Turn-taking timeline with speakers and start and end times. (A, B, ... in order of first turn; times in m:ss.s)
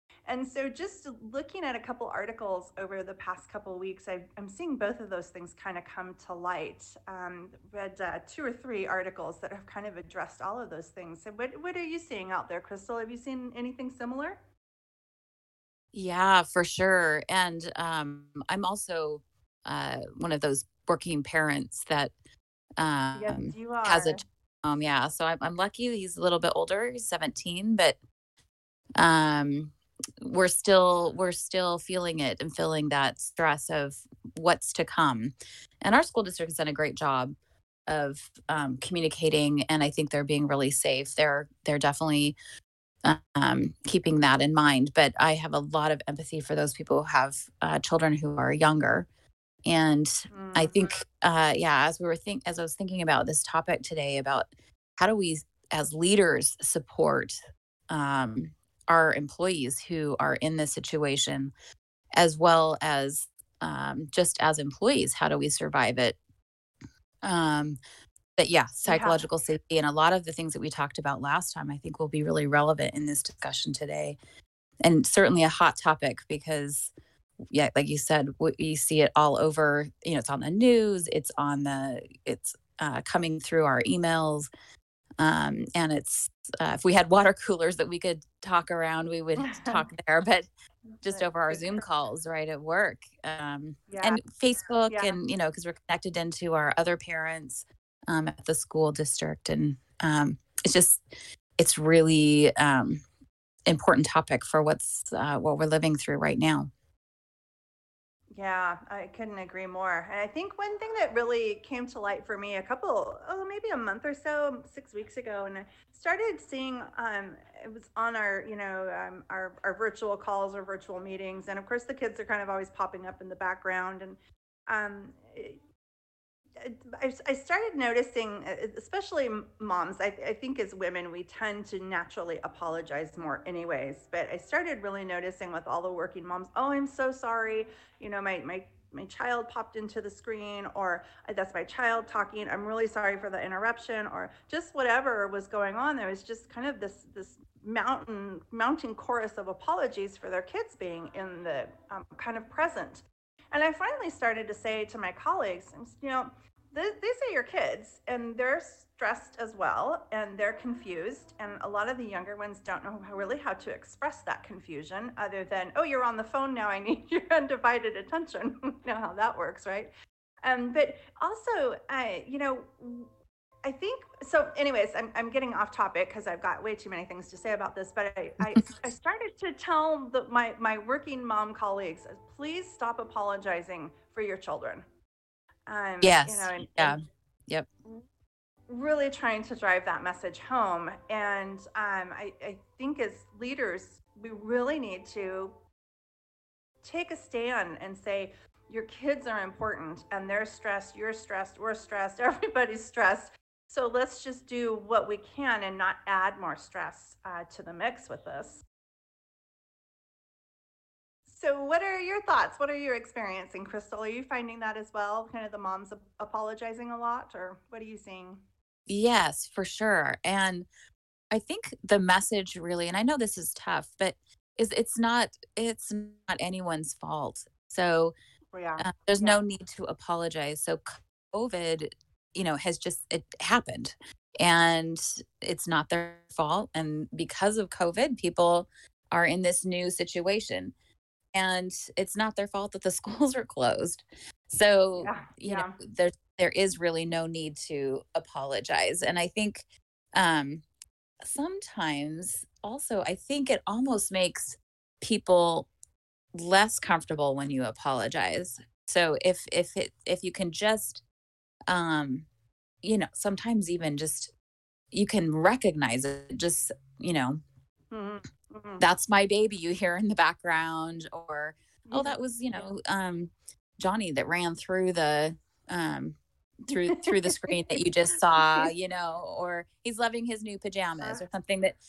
0:00.2-0:14.4 A
0:15.9-0:22.1 B
0:22.8-0:28.0 B
0:23.1-0:24.2 A
0:29.0-0:37.3 B
0:37.9-0:42.4 B
0:43.0-0:49.1 B
0:49.6-0:57.3 B
0:50.3-0:51.0 A
0:57.9-1:01.5 B
1:02.2-1:06.2 B
1:07.2-1:07.8 B
1:08.4-1:14.2 B
1:08.9-1:09.2 A
1:14.8-1:16.9 B
1:17.5-1:24.5 B
1:25.2-1:30.5 B
1:29.4-1:29.9 A
1:30.9-1:31.8 A
1:31.0-1:41.0 B
1:33.9-1:34.2 A
1:34.9-1:35.2 A
1:41.6-1:43.0 B
1:43.6-1:46.7 B
1:48.3-2:05.6 A
2:06.6-2:49.9 A
2:50.4-2:53.1 A
2:53.6-3:04.9 A
3:05.7-3:07.0 A
3:06.0-3:07.0 B
3:08.7-3:15.6 A
3:16.8-3:28.6 A
3:31.3-3:38.4 A
3:38.9-3:40.7 B
3:41.3-3:48.1 B
3:48.5-3:49.4 A
3:48.8-4:00.7 B
4:01.3-4:10.6 B
4:05.0-4:05.8 A
4:11.2-4:15.7 B
4:16.3-4:21.0 B
4:21.7-4:22.3 B
4:22.8-4:24.3 B
4:24.9-4:27.4 B
4:27.9-4:28.8 A
4:28.8-4:41.8 B
4:31.9-4:32.7 A
4:36.7-4:38.7 A